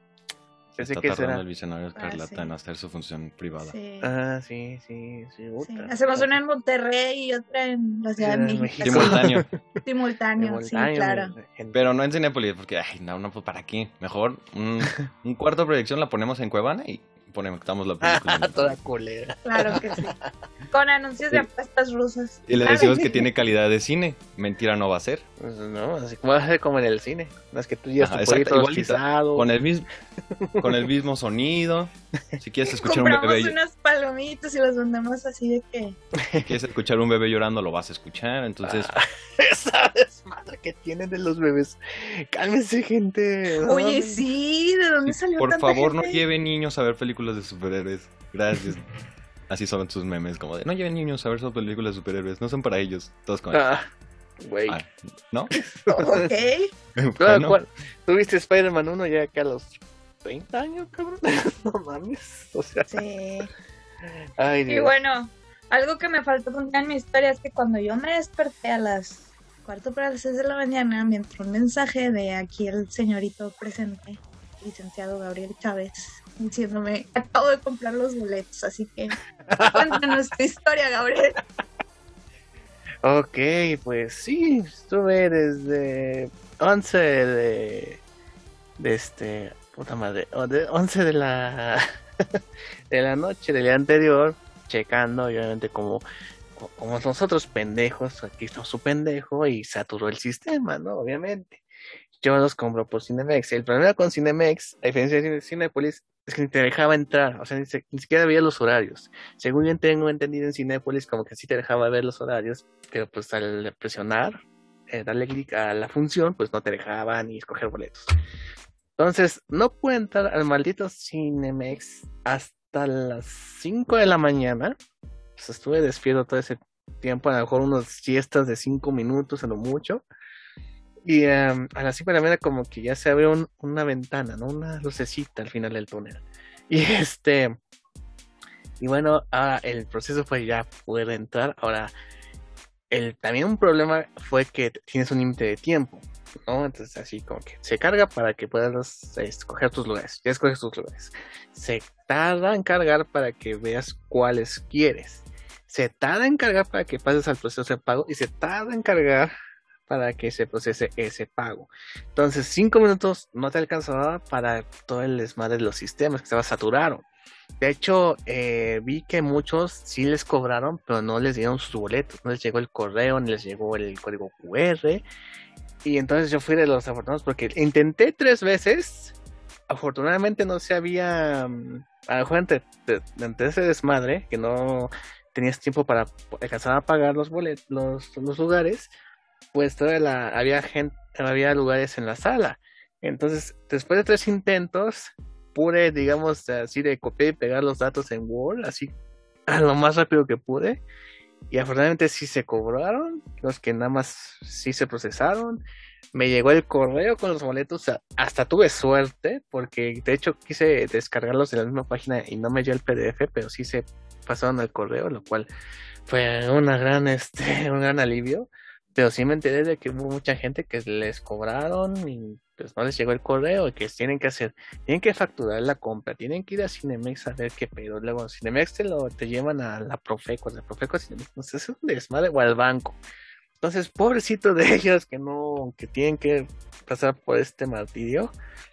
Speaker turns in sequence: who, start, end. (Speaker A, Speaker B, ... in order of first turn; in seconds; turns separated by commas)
Speaker A: 0.8-1.4, Speaker B: 0.8-3.7, Speaker C: 2.0-2.5, Speaker C: 3.6-4.1, Speaker A: 4.0-6.3, Speaker C: 5.6-9.2, Speaker A: 8.2-9.6, Speaker B: 8.8-9.5, Speaker C: 9.8-11.3, Speaker A: 10.4-11.8, Speaker B: 11.7-18.8, Speaker A: 18.0-20.3, Speaker C: 19.4-20.1, Speaker C: 20.7-23.3, Speaker B: 22.5-25.2, Speaker A: 25.4-29.5, Speaker B: 28.0-29.9, Speaker B: 30.6-33.6, Speaker C: 32.7-36.0, Speaker A: 36.2-36.5, Speaker B: 36.4-38.9, Speaker A: 38.6-44.2, Speaker C: 43.7-46.2, Speaker B: 45.4-48.9, Speaker B: 49.5-53.6, Speaker A: 53.5-53.9, Speaker A: 54.4-54.8, Speaker B: 54.7-55.5, Speaker A: 55.5-56.3, Speaker C: 55.9-56.7, Speaker B: 57.0-57.6, Speaker A: 57.2-63.0, Speaker C: 62.9-63.5, Speaker A: 64.4-64.9, Speaker C: 64.7-81.4, Speaker A: 79.5-80.0, Speaker A: 83.0-88.0, Speaker A: 88.8-92.4, Speaker A: 92.9-96.0, Speaker A: 96.6-101.6, Speaker A: 102.2-118.1, Speaker A: 119.0-124.8, Speaker A: 125.4-130.1, Speaker A: 131.1-137.6, Speaker A: 138.8-141.9, Speaker A: 142.9-159.3, Speaker A: 159.9-167.1, Speaker A: 167.6-175.0, Speaker A: 175.8-179.1, Speaker A: 179.7-188.9, Speaker A: 189.5-198.9, Speaker A: 199.5-200.8, Speaker A: 201.5-205.6, Speaker A: 206.1-215.5, Speaker A: 216.1-233.0, Speaker A: 233.6-238.3